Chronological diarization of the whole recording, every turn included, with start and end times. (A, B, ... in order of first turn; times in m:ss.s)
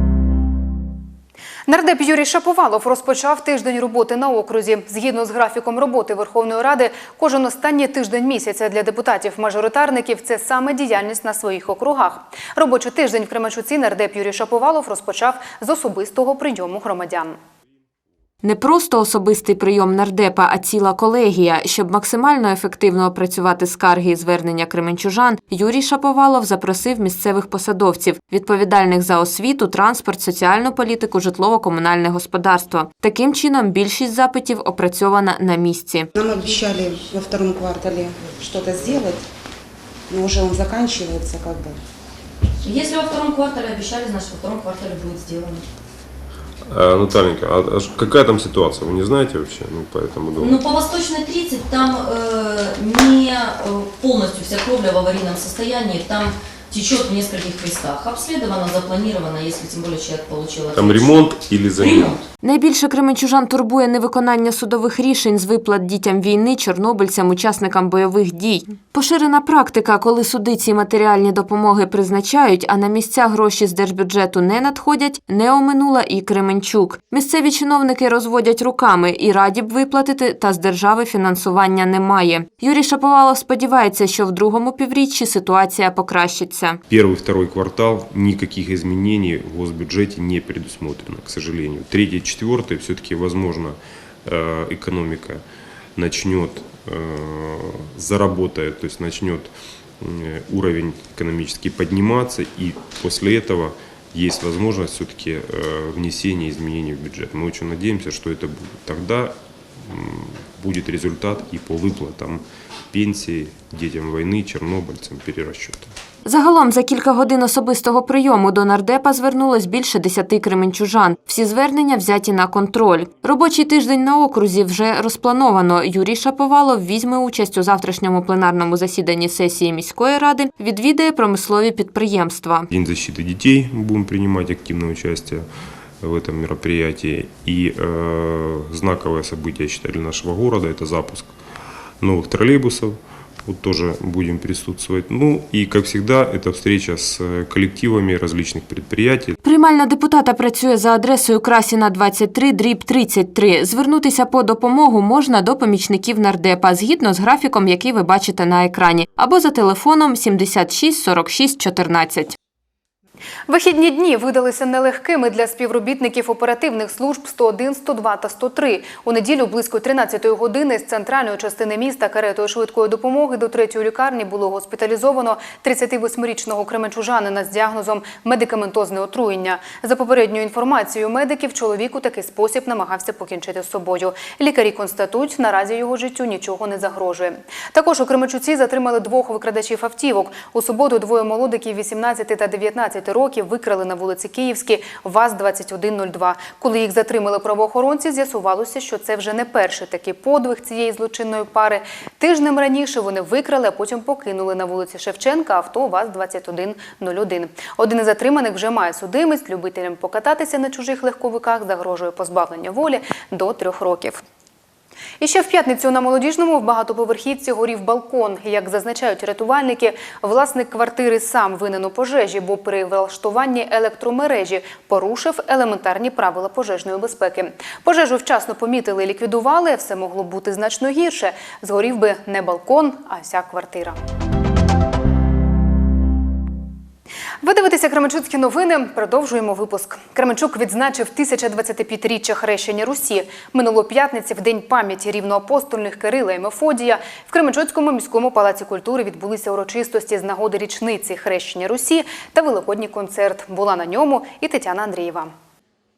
0:01.7-0:17.4 A
0:18.4-0:36.1 B
0:36.1-0:39.2 C
0:40.1-0:41.8 C
0:42.6-0:45.6 D
0:46.7-0:50.6 E
0:50.4-1:02.2 D
1:00.7-1:02.1 E
1:02.4-1:26.8 B
1:26.9-1:35.4 E
1:36.0-1:49.3 E
1:49.9-1:55.9 E
1:56.2-2:12.7 B
2:12.7-2:15.4 E
2:16.0-2:21.3 E
2:22.0-2:29.4 E
2:29.4-2:42.4 B
2:43.5-3:34.2 A
3:35.2-3:54.0 A
3:57.4-4:15.3 A